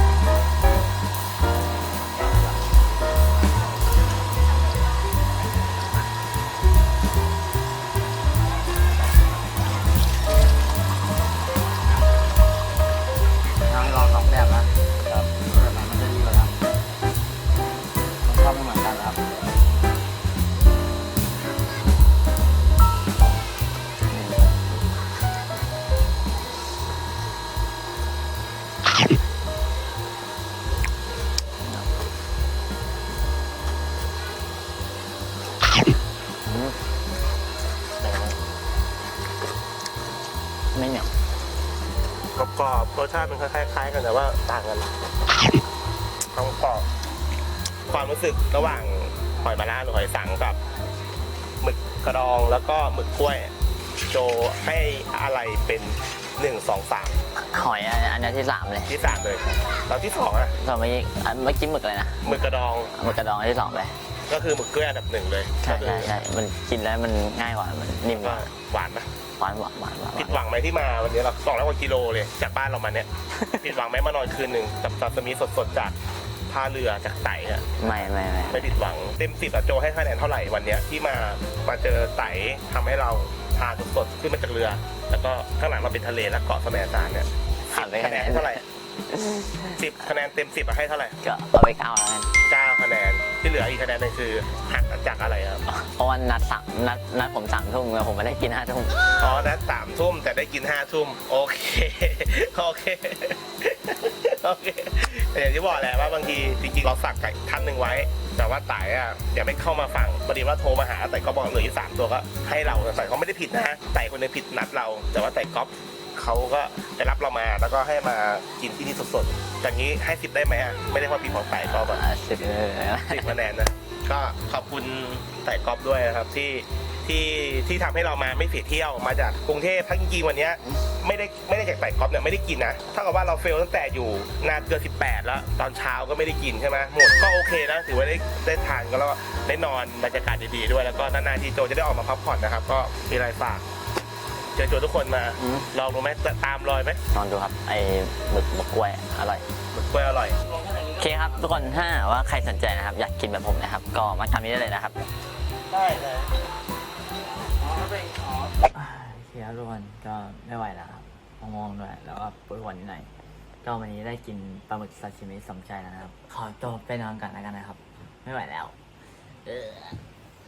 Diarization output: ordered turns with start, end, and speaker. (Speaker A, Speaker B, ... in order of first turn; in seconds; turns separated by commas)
Speaker A: 13.6-16.5, Speaker A: 18.2-19.2, Speaker B: 24.1-24.8, Speaker B: 31.6-31.9, Speaker B: 36.4-36.8, Speaker C: 38.0-38.3, Speaker B: 40.7-41.1, Speaker C: 42.3-44.9, Speaker C: 46.3-46.9, Speaker C: 47.9-50.6, Speaker C: 51.6-53.5, Speaker C: 54.1-57.2, Speaker B: 57.5-58.9, Speaker C: 58.9-60.5, Speaker B: 60.6-62.4, Speaker C: 62.2-62.9, Speaker B: 62.9-63.9, Speaker C: 64.3-66.1, Speaker B: 65.6-68.5, Speaker C: 68.1-69.1, Speaker B: 69.4-70.4, Speaker C: 70.2-76.0, Speaker C: 76.5-77.9, Speaker B: 77.8-78.7, Speaker C: 78.5-88.6, Speaker B: 87.7-89.8, Speaker C: 89.8-91.2, Speaker B: 91.2-92.3, Speaker C: 92.5-95.6, Speaker B: 95.7-99.1, Speaker C: 99.2-122.0, Speaker B: 121.5-123.3, Speaker C: 123.1-143.6, Speaker C: 144.5-147.0, Speaker B: 145.4-145.6, Speaker B: 147.1-149.4, Speaker C: 149.7-150.4, Speaker A: 150.7-150.9, Speaker B: 150.9-155.0, Speaker C: 155.7-156.2, Speaker A: 157.6-158.2, Speaker B: 158.7-163.1, Speaker B: 163.6-168.7, Speaker B: 169.4-170.0